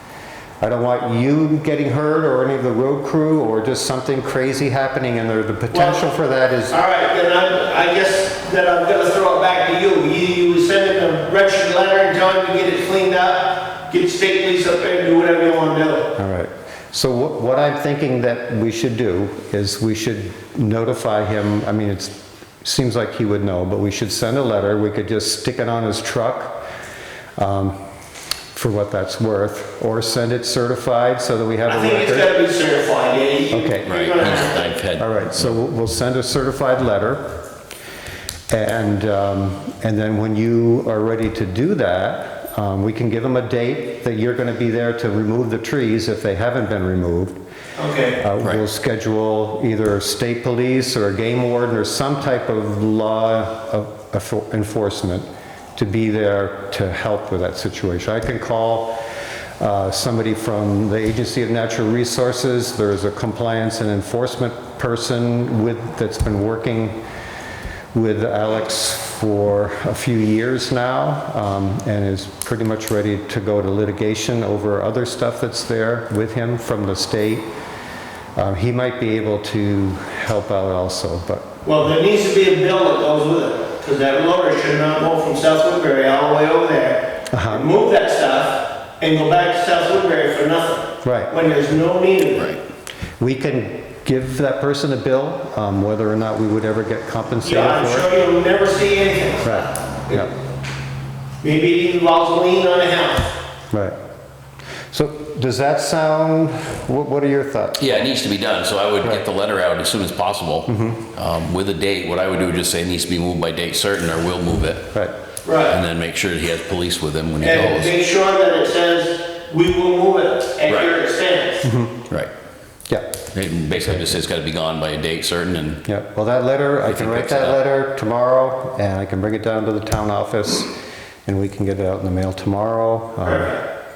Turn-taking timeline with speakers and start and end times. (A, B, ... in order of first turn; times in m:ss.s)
0:00.6-0:06.8 A
0:05.7-0:06.0 B
0:06.7-0:16.1 B
0:16.2-0:26.6 A
0:27.4-0:27.8 A
0:28.5-0:32.3 A
0:31.7-0:34.7 B
0:33.5-0:33.9 A
0:33.8-0:35.6 C
0:35.0-0:37.2 A
0:38.5-0:47.4 A
0:47.8-0:48.2 B
0:48.2-0:58.9 A
0:59.6-1:07.0 A
1:07.9-1:17.5 A
1:18.4-1:21.5 A
1:21.6-1:32.6 B
1:27.3-1:27.7 A
1:31.0-1:31.3 A
1:33.2-1:38.1 A
1:37.4-1:40.3 B
1:39.4-1:40.3 A
1:41.4-1:43.4 B
1:44.9-1:47.8 A
1:47.8-1:54.9 C
1:50.7-1:51.0 A
1:55.4-1:55.8 B
1:55.6-1:57.9 C
1:57.4-2:01.6 B
2:00.7-2:00.9 C
2:01.6-2:02.0 A
2:03.3-2:05.8 C
2:03.8-2:04.0 A
2:05.9-2:10.7 A
2:06.8-2:07.6 C
2:11.3-2:13.5 A
2:13.2-2:13.6 B